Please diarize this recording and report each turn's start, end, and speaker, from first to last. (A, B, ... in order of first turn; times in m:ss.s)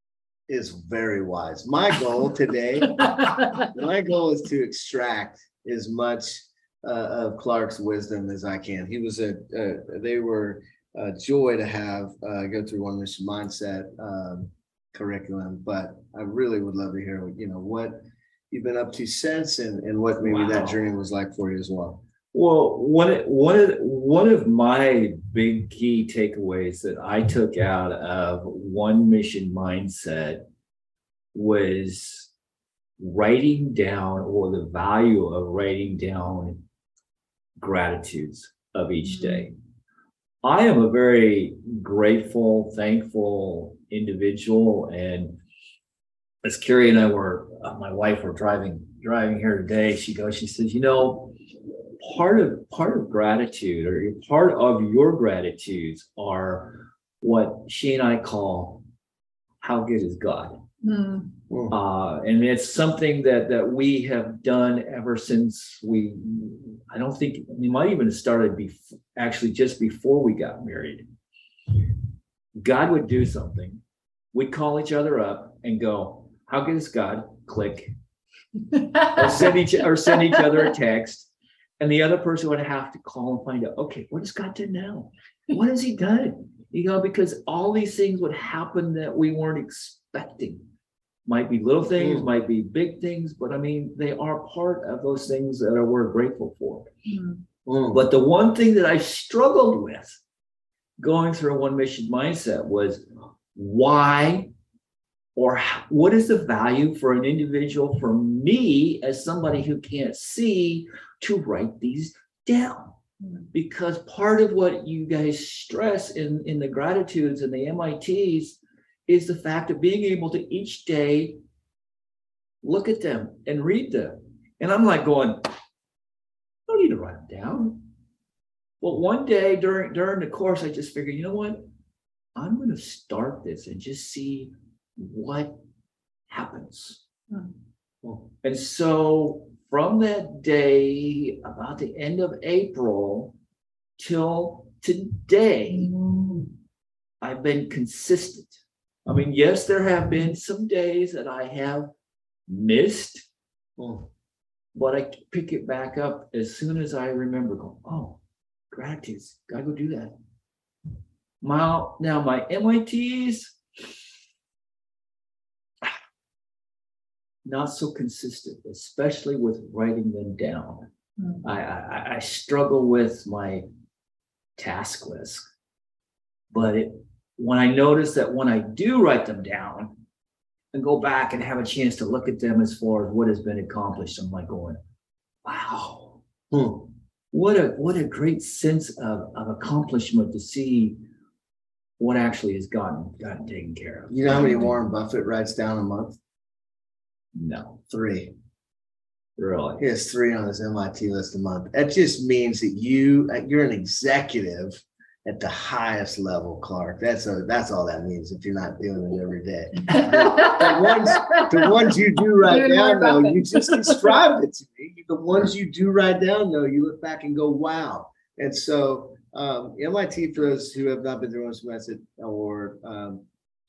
0:00.5-0:18.0 A
0:18.5-0:22.0 A
0:20.2-0:20.8 B
0:22.3-0:30.4 B
0:31.3-0:32.3 B
0:33.0-0:36.6 B
0:37.6-0:39.5 B
0:39.1-0:39.4 C
0:40.4-0:45.4 B
0:46.4-0:51.4 B
0:52.0-0:58.8 B
0:59.6-1:00.6 B
1:00.8-1:01.3 C
1:01.5-1:01.7 A
1:01.7-1:11.0 B
1:12.6-1:13.8 B
1:14.3-1:17.9 B
1:19.1-1:30.6 B
1:31.2-1:36.9 B
1:32.0-1:32.3 A
1:37.1-1:37.4 C
1:37.6-1:38.0 A
1:37.9-1:40.2 B
1:41.0-1:43.0 B
1:43.5-1:44.5 B
1:45.4-1:53.0 B
1:53.5-2:01.4 B
2:02.6-2:05.5 B
2:06.7-2:07.8 B
2:08.8-2:11.6 B
2:12.4-2:15.6 B
2:16.3-2:17.0 B
2:18.4-2:23.3 B
2:24.0-2:25.9 B
2:25.8-2:26.5 C
2:27.2-2:31.9 B
2:32.5-2:33.2 B
2:33.8-2:34.1 A
2:34.7-2:38.2 B
2:38.7-2:40.1 B
2:41.4-2:43.6 B
2:47.4-2:50.9 B
2:51.4-2:53.7 B
2:54.6-2:55.5 B
2:56.5-2:59.9 B
3:00.7-3:04.8 B
3:05.4-3:06.2 B
3:06.5-3:06.9 A
3:07.3-3:11.0 B
3:12.0-3:14.4 B
3:14.1-3:16.2 A
3:17.3-3:17.8 B
3:17.9-3:18.3 A
3:19.4-3:19.8 B
3:19.8-3:43.2 A
3:30.2-3:31.5 C
3:32.4-3:34.0 C